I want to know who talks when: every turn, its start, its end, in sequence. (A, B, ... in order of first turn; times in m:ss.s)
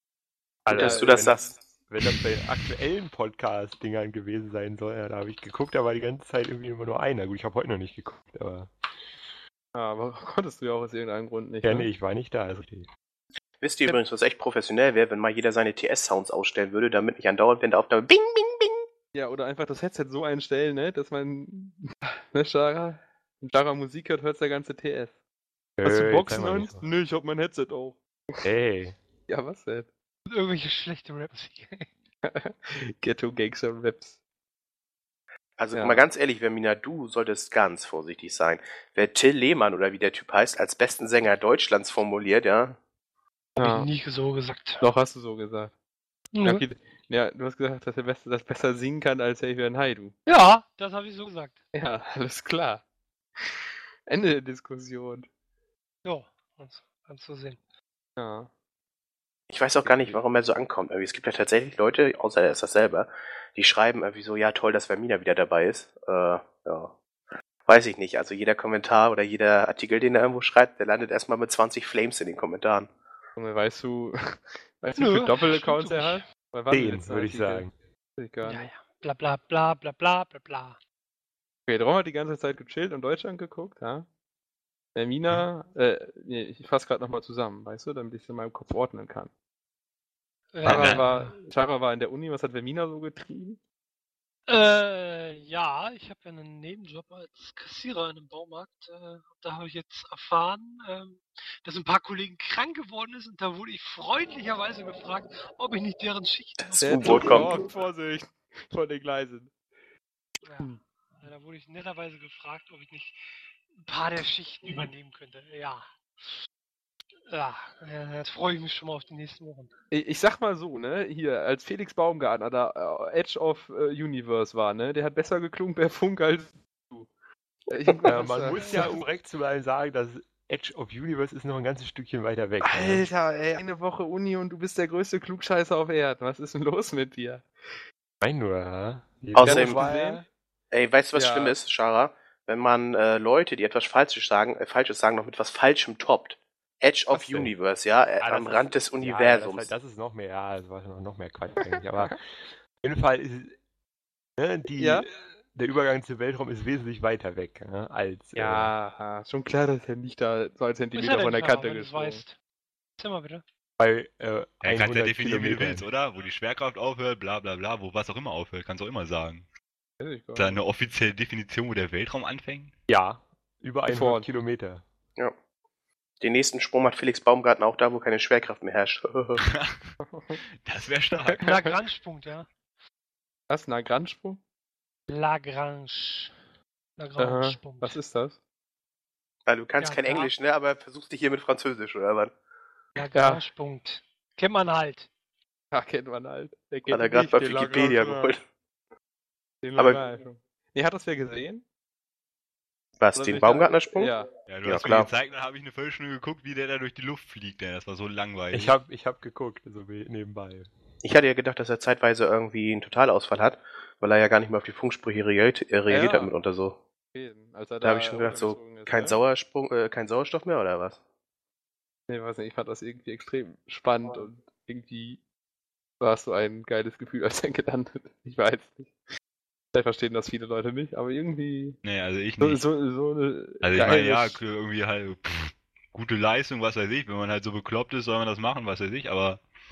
0:00.6-0:08.7 A
0:00.7-0:01.6 B
0:00.7-0:01.4 C
0:09.7-0:11.9 C
0:11.6-0:12.9 A
0:13.6-0:18.8 B
0:19.1-0:25.1 C
0:25.8-0:26.8 A
0:25.8-0:28.4 C
0:28.4-0:29.0 A
0:29.3-0:29.9 C
0:30.3-0:31.9 D
0:32.2-0:34.1 C
0:35.6-0:42.8 B
0:35.7-0:36.0 C
0:43.6-0:44.8 D
0:43.6-0:43.9 C
0:44.8-0:45.7 C
0:46.3-0:46.6 D
0:46.4-0:50.2 C
0:50.2-0:51.6 D
0:51.7-0:52.8 C
0:54.1-0:55.3 C
0:56.0-0:57.6 D
0:58.2-0:58.5 C
0:59.5-1:06.9 B
0:59.8-1:00.2 C
1:07.6-1:12.9 B
1:13.4-1:17.6 C
1:15.0-1:16.3 D
1:16.7-1:17.7 A
1:18.2-1:18.7 C
1:18.4-1:20.8 D
1:21.7-1:24.1 C
1:24.9-1:29.3 C
1:30.5-1:31.3 D
1:30.6-1:31.0 E
1:30.6-1:33.6 C
1:34.5-1:47.6 D
1:46.6-1:47.6 B
1:46.8-1:49.5 C
1:50.4-1:53.2 D
1:53.8-1:55.9 D
1:57.3-1:59.7 D
1:59.9-2:07.1 C
2:07.7-2:09.0 C
2:08.1-2:13.1 A
2:08.4-2:09.0 D
2:12.6-2:17.5 C
2:18.2-2:19.9 A
2:19.3-2:19.8 B
2:19.4-2:20.2 C
2:19.6-2:20.2 D
2:20.7-2:29.7 B
2:21.1-2:21.6 C
2:27.1-2:27.5 A
2:28.2-2:32.2 A
2:31.8-2:32.1 C
2:32.8-2:33.6 A
2:34.4-2:38.7 A
2:34.8-2:35.1 C
2:38.4-2:42.2 C
2:40.9-2:42.4 D
2:43.0-2:43.4 D
2:43.8-2:45.9 A
2:44.6-2:49.4 E
2:50.0-2:50.6 C
2:50.4-2:52.7 E
2:52.9-2:54.8 A
2:53.9-2:54.2 C
2:56.2-2:59.4 B
2:59.4-3:00.0 E
3:00.0-3:00.4 C
3:00.6-3:01.4 E
3:01.2-3:01.7 C
3:01.4-3:02.5 D
3:03.5-3:04.4 C
3:05.1-3:06.3 D
3:07.0-3:08.0 D
3:07.2-3:08.4 C
3:09.5-3:12.3 B
3:09.8-3:10.3 D
3:13.0-3:15.1 D
3:13.1-3:13.4 C
3:15.7-3:18.3 C
3:16.9-3:18.4 B
3:19.6-3:21.6 C
3:23.0-3:25.1 B
3:23.1-3:24.3 C
3:24.5-3:28.7 E
3:28.5-3:30.7 A
3:31.0-3:36.8 B
3:35.9-3:36.3 C
3:37.1-3:39.2 C
3:37.8-3:41.0 B
3:42.1-3:45.2 C
3:46.0-3:48.9 C
3:49.7-3:51.8 C
3:51.8-3:52.6 E
3:52.4-3:54.4 C
3:53.6-3:59.4 E